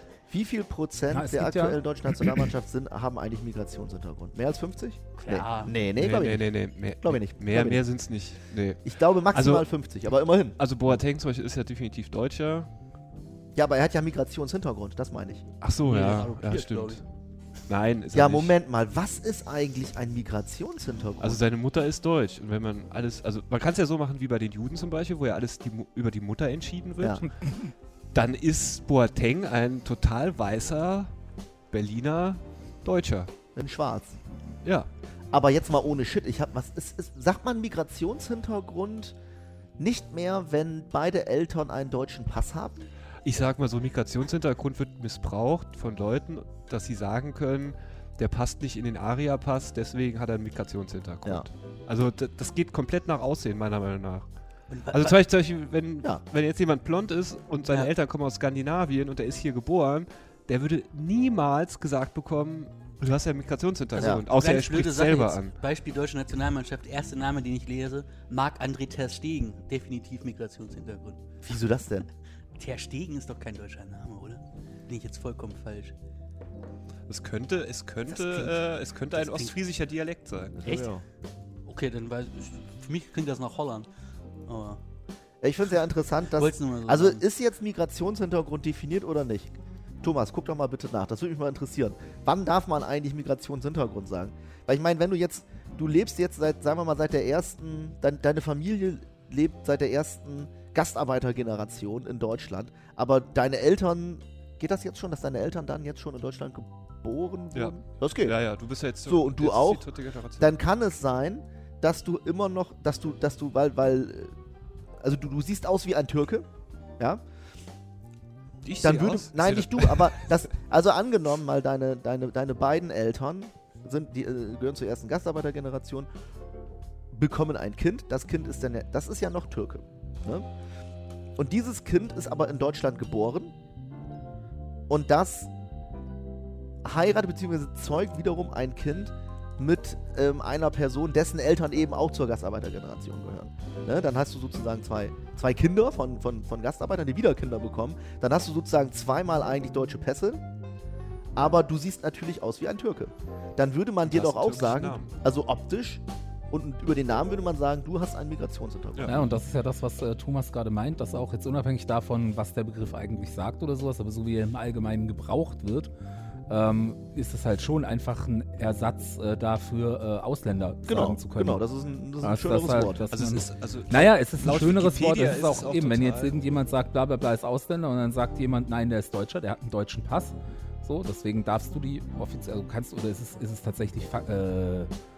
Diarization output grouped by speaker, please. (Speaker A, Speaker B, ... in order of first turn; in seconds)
Speaker A: 0.3-7.8, 8.8-10.6, 13.5-15.5, 18.1-21.4, 33.5-34.2, 35.3-39.1, 39.8-42.8, 64.0-64.2, 71.4-72.1, 80.6-81.0, 85.4-108.4, 109.0-109.8, 110.4-114.3, 115.0-116.5, 118.8-126.1, 127.1-130.5, 131.4-133.5, 134.9-135.5, 136.8-150.4, 151.3-159.3, 170.9-173.1
Speaker B: 1.1-2.4, 159.1-165.9, 166.5-171.6, 172.2-184.9
Speaker C: 5.2-5.7, 15.8-17.0, 54.7-55.1, 64.3-71.2, 72.6-75.9, 78.1-79.5, 80.6-81.0, 81.7-83.9, 84.5-84.8, 86.3-87.2
Speaker D: 6.0-9.7, 10.6-12.7, 15.6-17.0, 17.6-18.5, 21.2-27.5, 28.1-31.1, 31.7-33.3, 43.2-65.5, 77.1-80.9, 107.5-110.5, 118.6-120.3, 154.0-155.1, 173.1-176.3